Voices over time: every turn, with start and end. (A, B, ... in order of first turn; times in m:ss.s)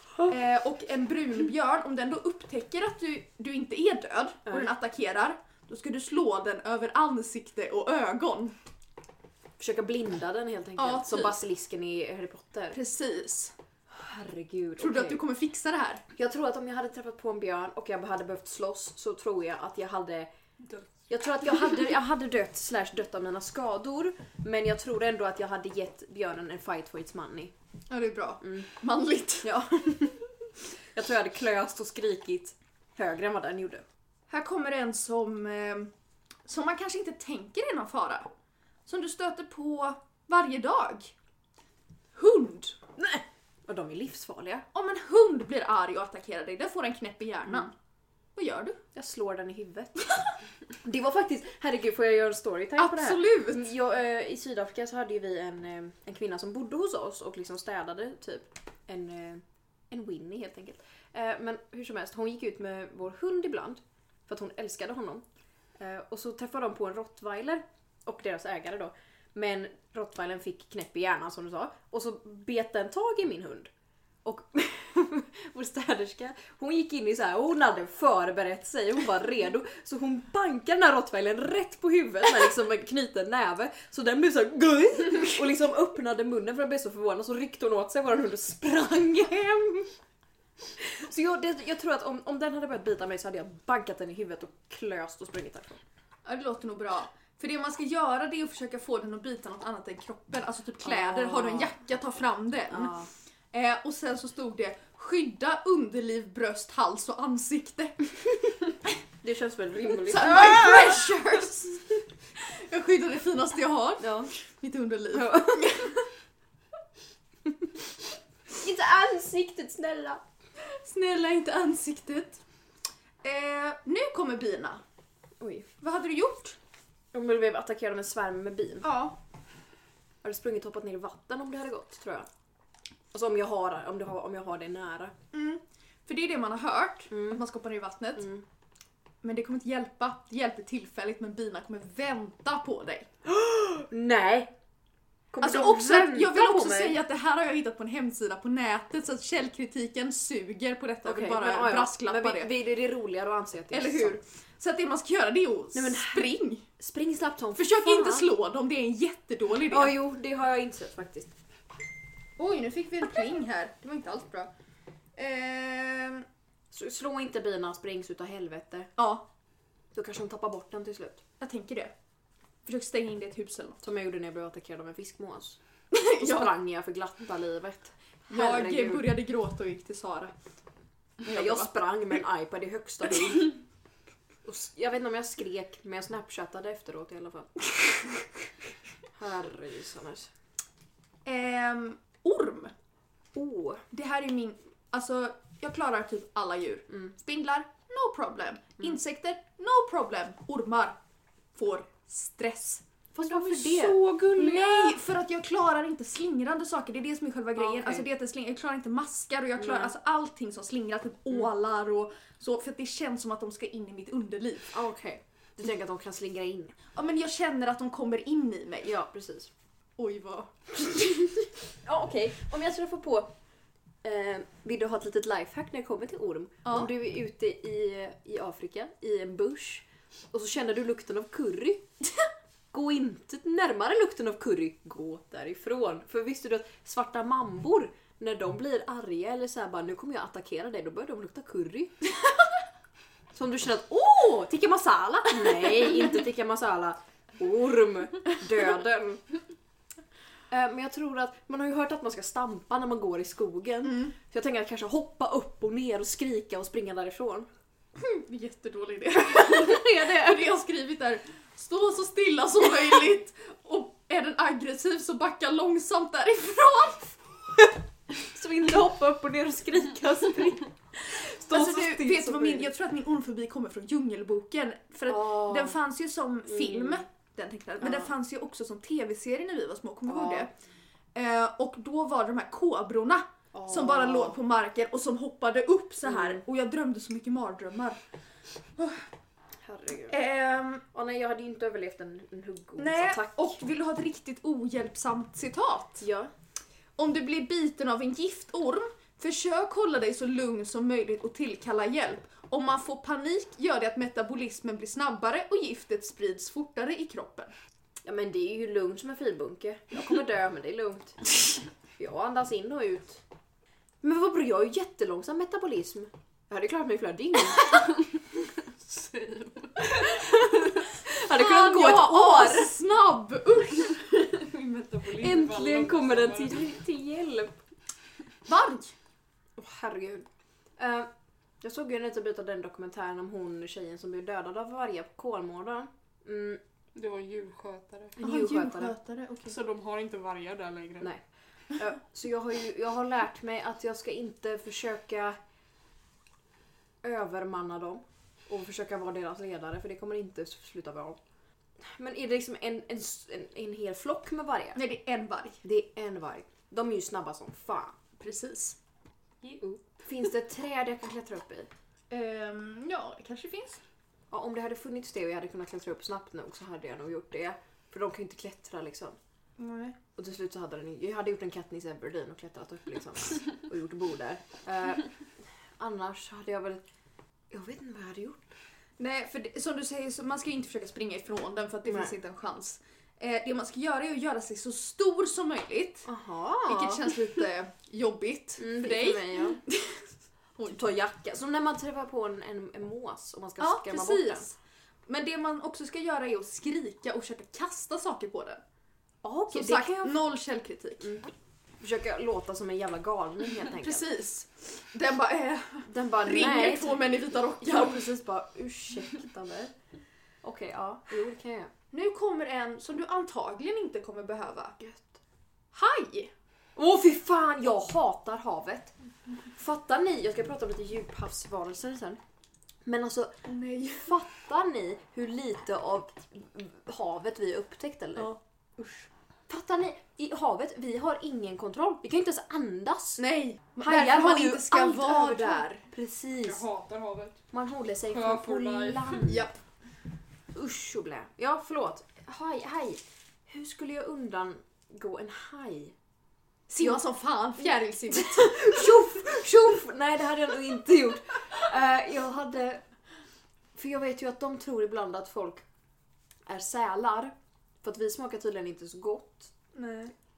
0:00.2-0:08.6 A
0:09.6-0:12.8 B
0:10.8-0:11.4 A
0:12.7-0:13.5 A
0:13.9-0:15.2 B
0:14.8-0:16.0 A
0:16.2-0:20.3 B
0:21.1-0:27.5 B
0:27.9-0:29.5 A
0:28.4-0:28.7 B
0:29.4-0:30.2 B
0:30.9-0:33.8 B
0:34.3-0:35.9 A
0:36.4-0:38.3 A
0:38.9-0:41.1 A
0:42.2-0:42.8 A
0:43.0-0:44.7 B
0:44.7-0:47.7 A
0:48.4-0:48.8 A
0:48.9-0:50.2 B
0:50.8-1:05.2 B
0:52.8-0:53.7 A
1:05.8-1:13.7 B
1:14.2-1:29.9 B
1:30.8-1:35.8 B
1:36.2-1:43.0 A
1:40.8-1:41.8 B
1:42.7-1:43.1 B
1:43.5-1:48.0 A
1:49.2-1:51.8 B
1:49.9-1:51.8 A
1:52.4-1:56.0 A
1:54.0-1:54.3 B
1:55.1-1:55.9 B
1:58.6-2:00.2 B
2:00.6-2:02.4 A
2:03.2-2:04.8 A
2:05.4-2:05.7 B
2:05.8-2:06.6 A
2:07.1-2:08.9 B
2:08.8-2:09.2 A
2:10.2-2:12.3 B
2:13.1-2:15.1 B
2:15.3-2:18.3 A
2:17.1-2:17.4 B
2:18.2-2:18.4 B
2:19.2-2:23.1 A
2:23.3-2:24.5 B
2:25.3-2:27.0 B
2:25.4-2:32.5 A
2:31.0-2:34.2 B
2:33.7-2:36.6 A
2:35.7-2:38.3 B
2:37.6-2:40.0 A
2:39.7-2:41.3 B
2:42.4-2:44.5 A
2:45.2-2:46.3 A
2:46.7-2:48.9 B
2:49.0-2:49.2 A
2:49.9-2:51.2 B
2:51.4-2:51.9 A
2:52.6-2:53.8 A
2:53.8-2:59.1 B
2:55.9-2:56.5 A
2:58.3-3:00.3 A
3:01.2-3:01.7 A
3:01.3-3:03.6 B
3:04.4-3:07.7 B
3:09.2-3:10.3 B
3:11.2-3:12.7 A
3:13.4-3:13.8 B
3:13.9-3:21.0 A
3:21.6-3:34.7 A
3:23.2-3:25.0 B
3:27.6-3:28.1 B
3:29.6-3:29.9 B
3:34.7-3:36.8 B
3:37.0-3:38.9 A
3:38.8-3:39.5 B
3:40.0-3:41.0 A
3:41.8-3:43.3 B
3:44.0-3:51.8 B
3:46.6-3:46.9 A
3:52.7-4:01.9 B
4:03.3-4:09.2 B
4:05.4-4:05.8 A
4:10.5-4:17.5 B
4:13.8-4:14.1 A
4:18.0-4:27.2 A
4:19.3-4:20.4 B
4:28.2-4:32.7 B
4:31.5-4:40.5 A
4:35.1-4:35.8 B
4:36.5-4:37.0 B
4:40.1-4:40.5 B
4:41.1-4:48.0 A
4:43.5-4:44.4 B
4:46.1-4:46.4 B
4:48.8-4:49.0 A
4:49.6-4:50.2 B
4:50.1-4:50.8 A
4:50.9-4:53.6 B
4:52.8-4:56.0 A
4:56.0-4:56.3 B
4:57.0-5:07.5 A
5:08.0-5:11.3 B
5:12.0-5:13.2 B
5:14.0-5:18.2 B
5:18.6-5:20.7 C
5:20.0-5:22.7 B
5:21.3-5:24.0 A
5:24.2-5:26.7 C
5:25.1-5:27.6 B
5:28.4-5:28.9 A
5:29.6-5:30.3 B
5:30.8-5:31.1 B
5:31.6-5:36.6 B
5:37.0-5:38.2 C
5:38.2-5:39.6 A
5:38.2-5:39.0 B
5:39.5-5:41.1 C
5:41.7-5:45.4 B
5:47.0-5:51.2 B
5:51.8-5:54.8 B
5:54.8-5:55.6 A
5:55.6-5:58.0 B
5:58.2-5:58.8 A
5:59.6-6:01.7 B
6:02.1-6:03.8 A
6:04.3-6:09.2 B
6:09.6-6:10.0 A
6:10.2-6:15.1 B
6:15.8-6:16.8 B
6:17.5-6:18.5 B
6:19.0-6:26.1 A
6:21.9-6:22.1 B
6:26.1-6:27.1 B
6:26.7-6:30.0 A
6:28.6-6:29.6 B
6:30.7-6:34.5 B
6:33.6-6:34.6 A
6:35.1-6:38.6 A
6:39.2-6:40.2 B
6:39.5-6:41.1 A
6:41.0-6:44.1 B
6:43.6-6:48.0 A
6:45.9-6:49.7 B
6:50.4-6:51.7 B
6:51.9-6:54.8 A
6:54.8-6:55.2 B
6:55.7-6:56.3 A
6:56.8-6:58.9 B
6:59.5-7:02.2 B
7:02.8-7:03.3 B
7:03.4-7:04.1 A
7:04.0-7:08.3 B
7:08.2-7:09.1 A
7:09.5-7:13.2 B
7:13.2-7:15.8 A
7:13.8-7:16.6 B
7:16.4-7:17.4 C
7:17.5-7:19.5 B
7:18.1-7:19.2 C
7:19.3-7:19.5 A
7:20.5-7:25.9 B
7:26.7-7:28.9 A
7:28.1-7:32.8 B
7:33.8-7:35.6 B
7:36.5-7:39.5 B
7:39.7-7:40.1 A